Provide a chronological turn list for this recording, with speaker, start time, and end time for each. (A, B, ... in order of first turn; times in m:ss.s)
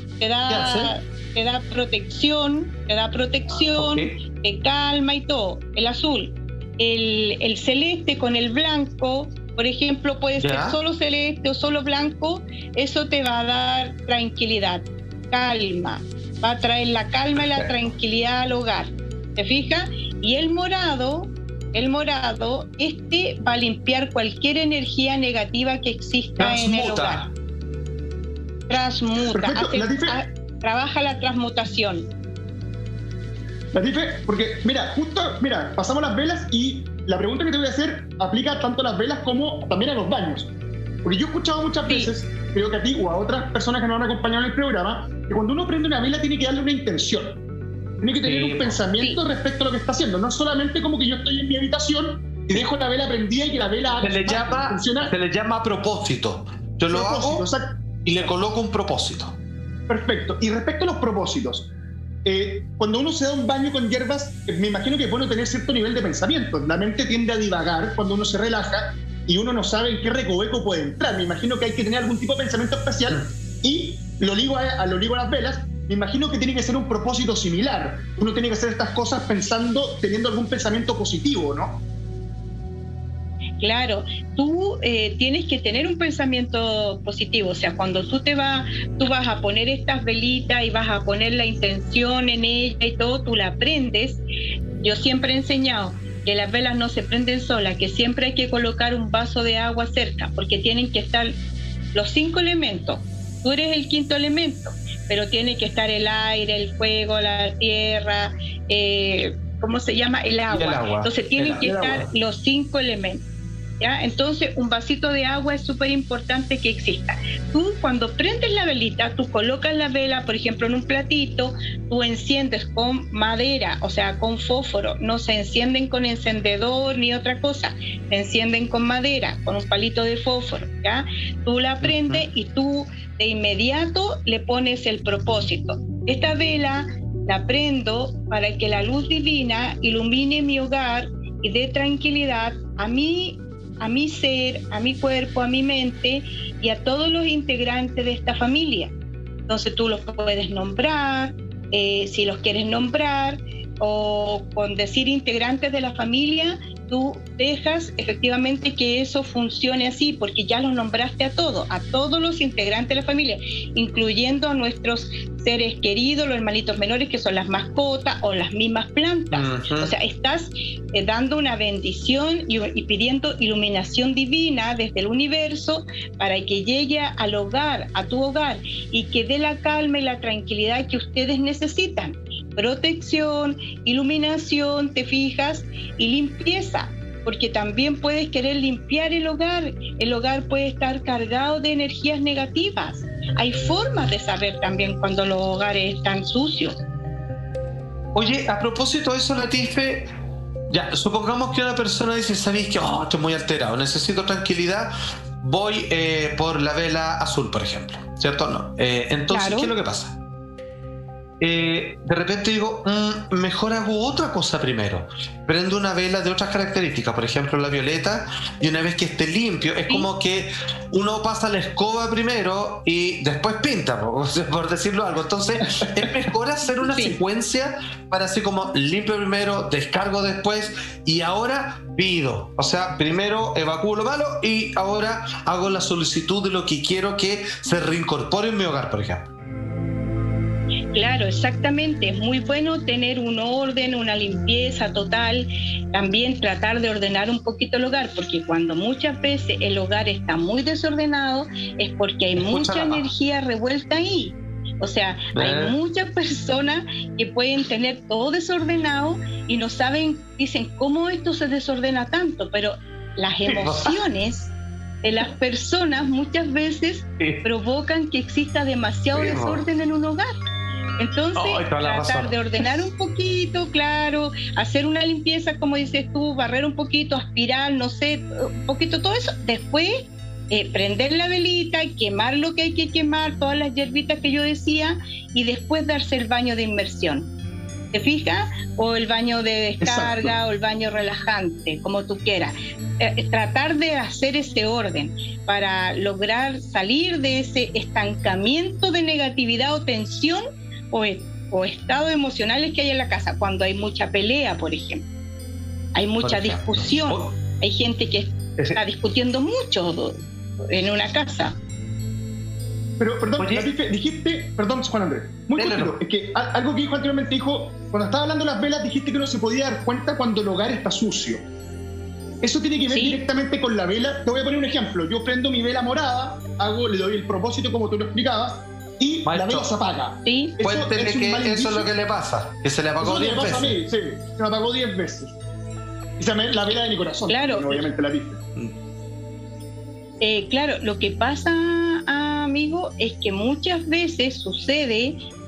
0:00.2-0:27.2 A
0:00.5-0:00.9 B
0:03.6-0:04.1 B
0:10.4-0:10.8 B
0:17.3-0:17.9 B
0:26.4-0:27.3 B
0:28.7-0:32.1 A
0:29.3-0:30.2 C
0:33.7-0:40.5 C
0:41.0-0:47.4 C
0:41.9-0:42.1 A
0:48.0-0:55.1 C
0:48.2-0:48.8 B
0:54.0-0:57.5 B
0:56.9-0:57.8 C
0:58.0-0:59.3 B
0:59.9-1:01.7 C
1:02.2-1:21.8 C
1:23.6-1:34.2 A
1:34.8-1:41.3 A
1:41.9-1:53.2 A
1:50.5-1:52.0 B
1:51.6-1:52.0 C
1:53.8-2:28.9 A
2:11.8-2:12.2 B
2:29.5-3:16.8 A
2:49.3-2:49.9 B
3:18.1-3:20.1 B
3:20.7-3:30.1 B
3:29.3-3:29.7 A
3:31.4-3:59.3 B
3:46.8-3:47.2 A
4:00.9-4:30.3 A
4:12.4-4:13.1 B
4:15.3-4:15.8 B
4:23.4-4:24.0 B
4:29.1-4:29.6 B
4:31.0-4:39.9 A
4:31.3-4:32.4 B
4:40.5-4:47.3 A
4:47.9-5:05.0 A
4:49.8-4:50.4 C
5:05.9-5:10.2 A
5:06.2-5:07.3 B
5:10.7-5:11.6 A
5:13.0-5:21.4 C
5:13.4-5:13.7 B
5:15.5-5:16.0 B
5:22.4-5:31.9 C
5:22.9-5:23.2 A
5:29.2-5:29.7 B
5:30.2-5:30.6 A
5:30.6-5:33.8 B
5:33.0-5:35.4 C
5:36.2-5:38.4 C
5:37.3-5:37.8 A
5:40.2-5:45.2 A